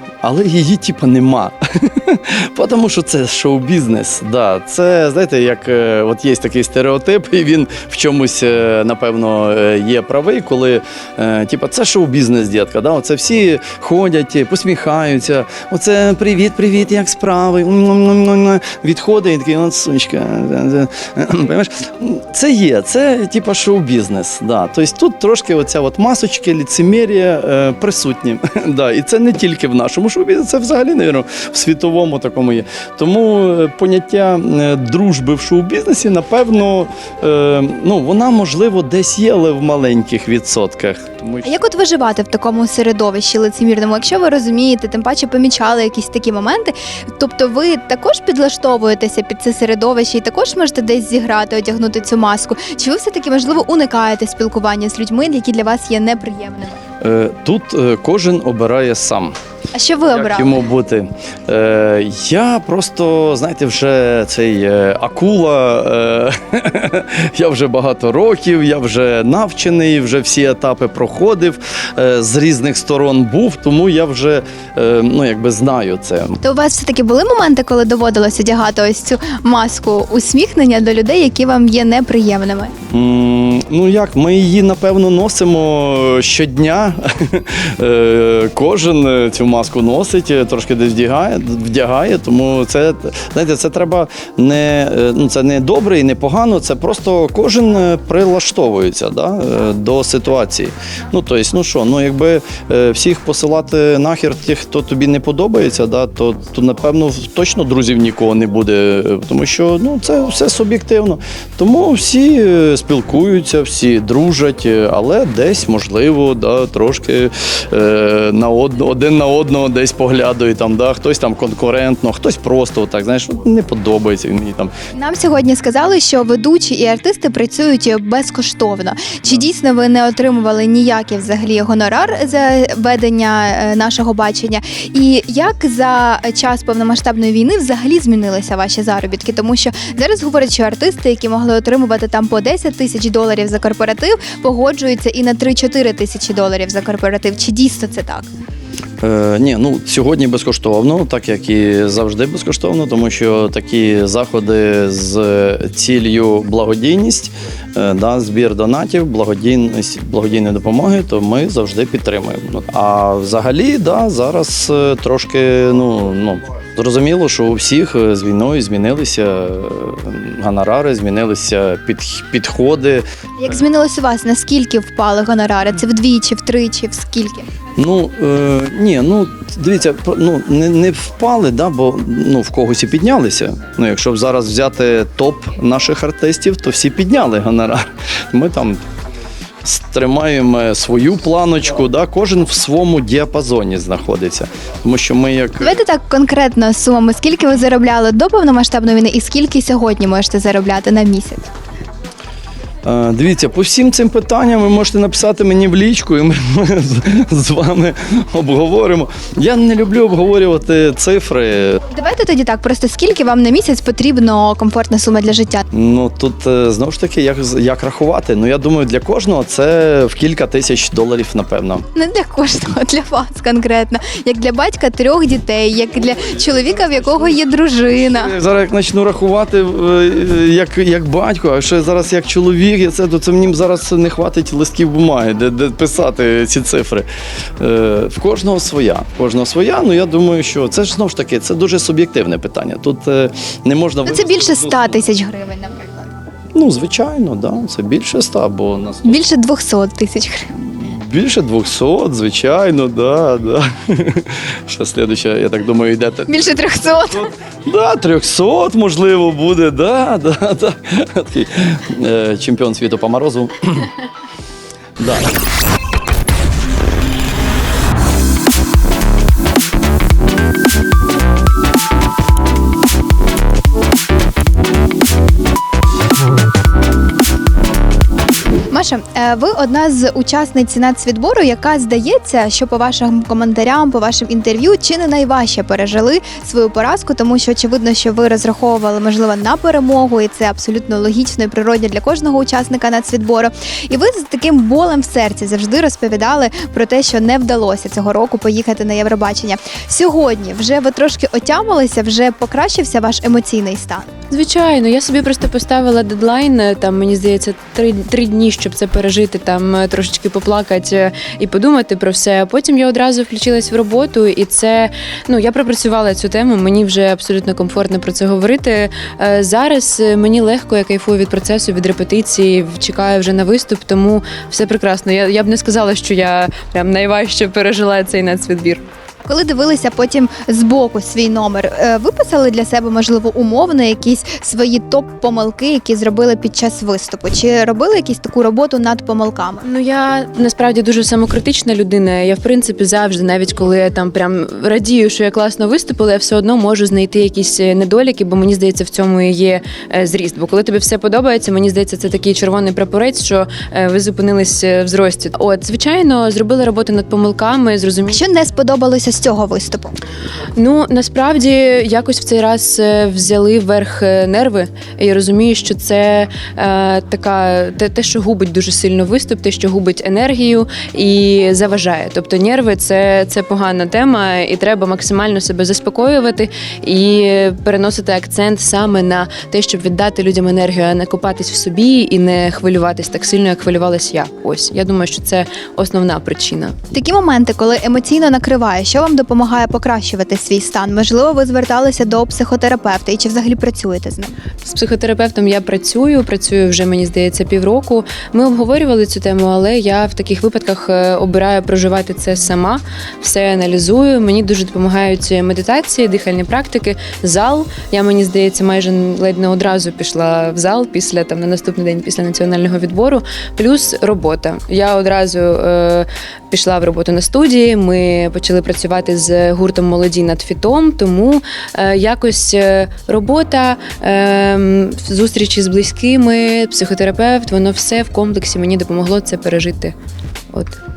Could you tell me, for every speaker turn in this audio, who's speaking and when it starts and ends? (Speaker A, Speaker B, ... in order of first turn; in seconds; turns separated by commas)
Speaker A: 0.2-41.5, Speaker B: 41.4-56.8, Speaker A: 57.0-59.4, Speaker B: 59.8-60.6, Speaker A: 60.1-76.4, Speaker B: 76.4-82.7, Speaker A: 82.9-124.7, Speaker B: 124.9-148.3, Speaker A: 149.0-173.1, Speaker B: 173.4-177.5, Speaker A: 177.8-188.8, Speaker A: 189.6-195.8, Speaker B: 195.6-201.5, Speaker A: 202.8-211.8, Speaker B: 211.9-215.6, Speaker A: 215.7-221.8, Speaker B: 221.9-228.3, Speaker A: 226.0-227.4, Speaker A: 227.9-237.1, Speaker A: 237.6-245.1, Speaker B: 244.1-246.1, Speaker A: 246.5-249.2, Speaker B: 249.1-250.5, Speaker A: 250.5-256.4, Speaker B: 256.3-257.3, Speaker A: 257.6-263.9, Speaker A: 265.0-265.3, Speaker B: 278.7-304.1, Speaker C: 304.3-328.8, Speaker B: 329.3-339.6, Speaker C: 339.6-358.2, Speaker B: 358.1-359.9, Speaker C: 360.6-386.8, Speaker B: 386.9-394.3, Speaker C: 394.6-429.9, Speaker C: 430.5-430.8